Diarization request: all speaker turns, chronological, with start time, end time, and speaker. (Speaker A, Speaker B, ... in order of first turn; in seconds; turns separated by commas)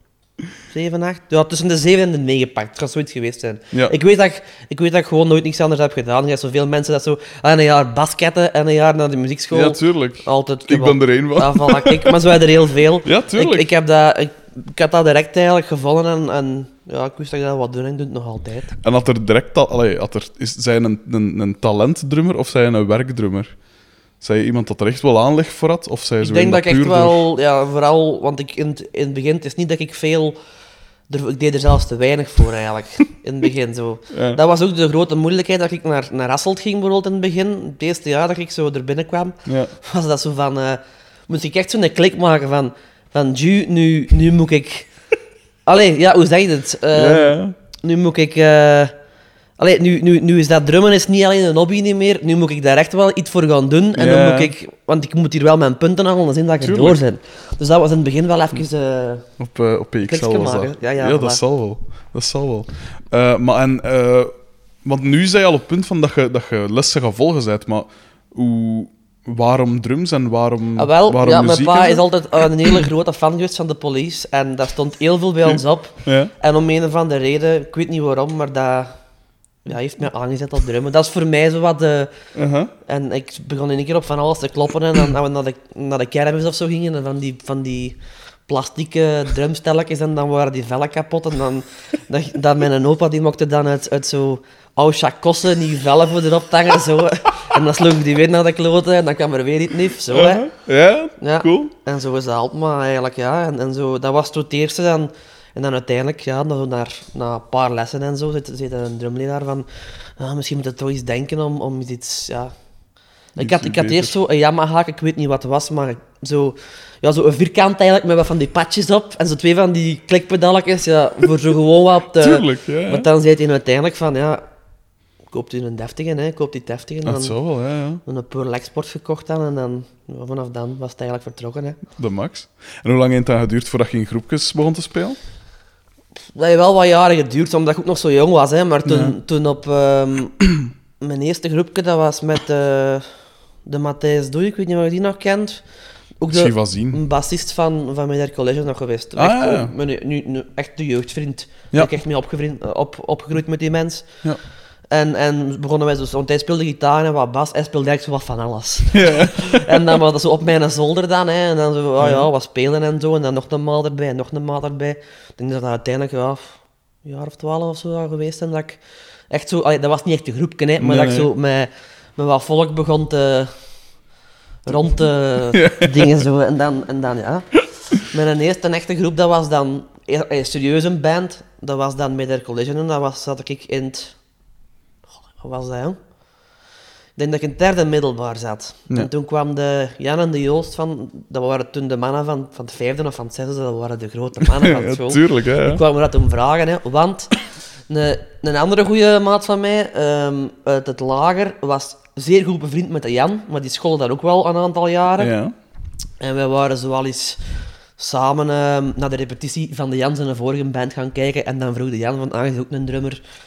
Speaker A: 0.7-18.7, Speaker B: 9.5-12.3, Speaker B: 13.0-13.7, Speaker B: 18.8-23.5, Speaker B: 24.2-27.3, Speaker A: 26.2-30.4, Speaker A: 31.1-44.9, Speaker B: 34.1-34.4, Speaker B: 39.5-39.7, Speaker A: 45.7-48.9, Speaker B: 46.9-47.6, Speaker A: 49.6-59.3, Speaker B: 54.0-54.5, Speaker B: 56.6-57.0, Speaker B: 59.4-64.3, Speaker A: 60.1-61.4, Speaker B: 64.8-72.1, Speaker A: 70.8-79.0, Speaker B: 75.5-76.3, Speaker A: 79.7-82.1, Speaker B: 82.3-82.7, Speaker A: 82.8-88.0, Speaker A: 88.5-100.5, Speaker B: 100.1-101.7, Speaker A: 101.2-112.5, Speaker A: 113.3-124.4, Speaker B: 113.4-114.1, Speaker B: 122.2-123.1, Speaker A: 125.3-127.4, Speaker B: 127.0-128.0, Speaker A: 128.0-131.8, Speaker B: 132.0-135.2, Speaker A: 136.3-140.4, Speaker B: 138.8-139.1, Speaker A: 141.0-143.1, Speaker A: 143.7-145.6, Speaker A: 146.2-154.1, Speaker B: 146.3-147.0, Speaker B: 149.2-149.7, Speaker A: 154.9-168.8, Speaker B: 158.9-160.0, Speaker B: 162.0-162.3, Speaker A: 169.3-173.5, Speaker B: 170.8-171.3, Speaker A: 174.7-184.2, Speaker B: 175.5-176.2, Speaker A: 185.4-186.0, Speaker A: 187.2-197.4, Speaker B: 194.4-195.8, Speaker A: 197.9-205.3, Speaker B: 205.2-205.5, Speaker A: 206.2-207.4, Speaker A: 208.0-213.2